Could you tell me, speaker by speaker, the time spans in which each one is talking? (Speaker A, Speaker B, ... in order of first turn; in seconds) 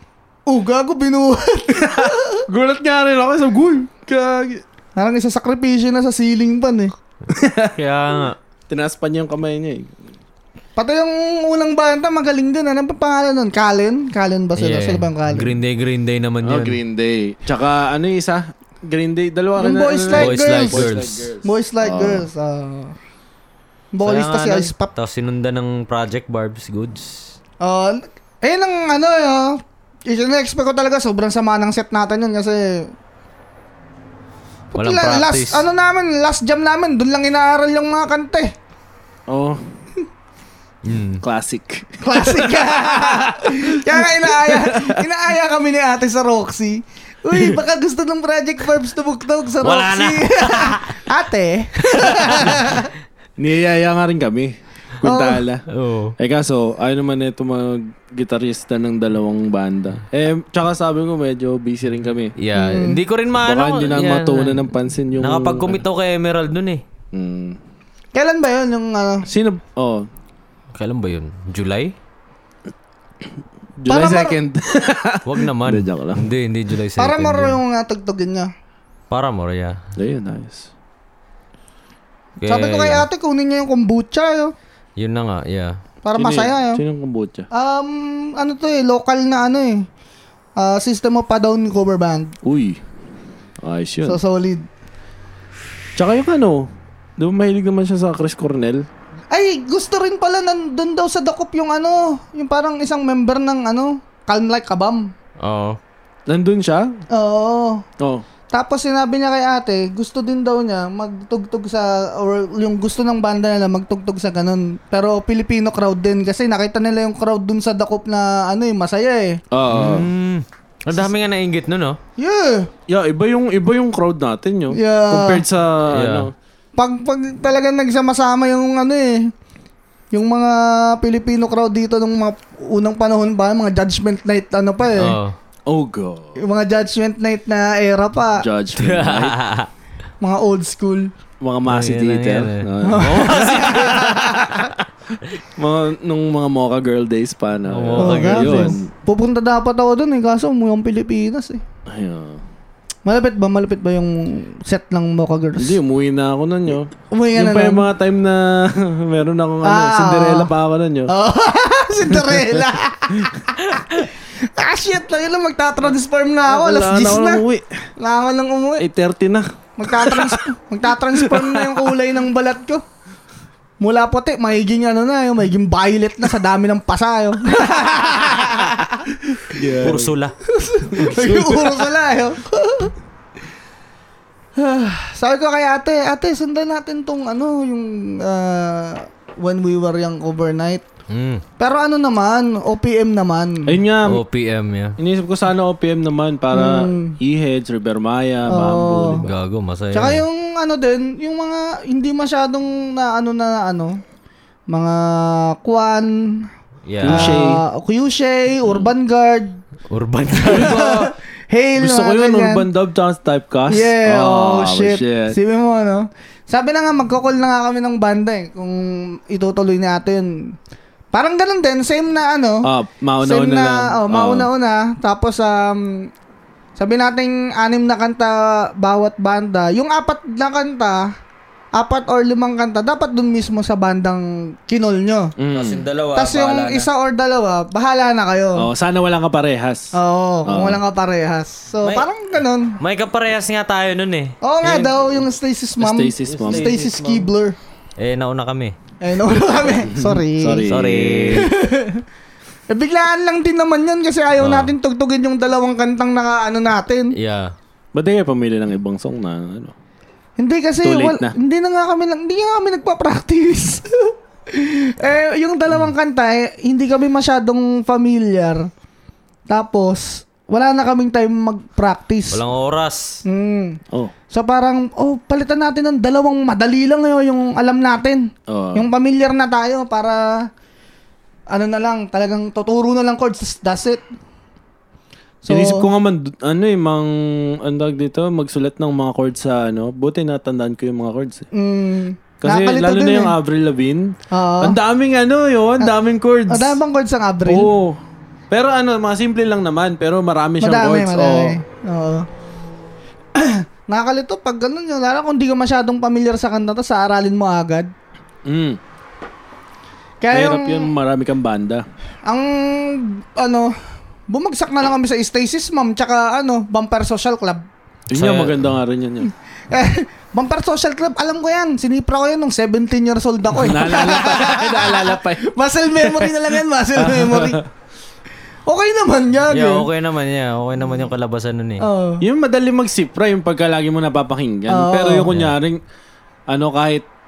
Speaker A: 0.5-2.4, 5.0-6.9, 10.8-15.6, 19.6-20.9, 21.4-22.9, 23.9-24.9, 27.6-32.9, 34.7-38.5, 42.0-52.9, 55.0-55.4, 62.5-63.0, 68.1-69.3, 73.9-74.3, 77.0-78.5, 82.5-84.5, 86.0-86.8, 87.5-89.9, 90.6-92.3, 94.0-94.7, 99.3-105.1, 107.1-107.8, 108.5-119.4, 122.2-122.7, 124.7-125.4, 126.8-129.3, 130.1-135.2, 136.4-138.4, 140.2-141.1, 142.8-144.7, 148.0-151.6, 153.1-155.8, 157.1-157.9, 159.6-160.5, 161.1-167.4, 168.0-168.8, 169.8-172.8, 173.8-178.9, 180.5-182.9, 184.6-190.8, 191.6-193.7, 196.5-197.2, 198.5-199.2, 199.9-204.0, 204.7-206.5, 207.0-209.6, 210.4-212.7, 213.7-220.3, 221.1-222.7, 223.2-226.1, 226.8-231.1, 231.8-235.3, 236.2-238.7, 239.9-242.8, 244.4-247.6, 249.0-250.7, 251.3-252.0, 252.7-257.1, 260.4-268.7, 269.5-272.4, 273.2-273.8, 274.3-280.5, 281.5-284.0, 285.4-285.9, 291.5-293.3, 294.3-294.8, 296.5-297.7, 300.6-302.2, 303.4-307.9, 310.2-310.9, 312.2-313.7, 314.3-317.6, 319.7-327.6, 328.7-329.9, 331.8-332.2, 334.7-335.3
Speaker B: 1.8-4.6, 7.3-10.0, 16.4-22.3, 39.3-39.6, 41.2-45.0, 53.4-55.6, 56.2-62.3, 63.4-65.8, 67.1-67.6, 69.3-70.1, 73.8-76.3, 80.0-80.7, 86.1-87.5, 92.4-92.8, 93.6-94.2, 96.0-98.8, 106.3-107.0, 108.0-108.2, 119.5-120.1, 122.9-126.3, 135.7-136.4, 138.4-139.4, 141.4-144.2, 145.6-148.9, 151.9-152.4, 155.6-161.1, 162.1-162.4, 166.5-167.7, 168.8-170.4, 171.1-171.9, 179.4-180.1, 180.9-181.9, 193.7-194.2, 195.0-199.3, 207.0-207.6, 211.8-215.3, 222.6-224.5, 235.4-235.8, 238.6-239.9, 240.4-240.8, 244.6-245.0, 245.8-246.7, 249.7-251.5, 257.9-259.7, 260.8-261.4, 278.5-278.9, 285.5-291.5, 292.4-296.8, 297.4-298.0, 298.5-301.6, 308.4-308.8, 310.3-311.8, 318.1-319.3, 323.5-327.6, 332.2-335.8, 336.5-337.1
Speaker C: 7.8-8.3, 14.6-16.8, 20.1-21.3, 24.0-27.3, 34.7-35.6, 40.8-41.2, 49.6-51.0, 55.7-56.1, 62.4-66.8, 70.7-71.9, 75.2-77.6, 79.1-79.8, 82.4-83.1, 85.0-85.8, 105.4-105.8, 119.7-122.0, 125.9-126.3, 135.0-135.3, 138.8-139.7, 141.7-144.3, 147.7-148.8, 179.8-180.3, 191.1-191.4, 194.0-195.0, 199.2-200.2, 206.9-207.4, 209.9-211.1, 235.5-236.9, 242.8-244.3, 246.3-247.3, 248.0-248.8, 250.7-251.5, 254.4-254.7, 257.1-257.5, 272.3-273.2, 318.1-318.7, 329.5-331.9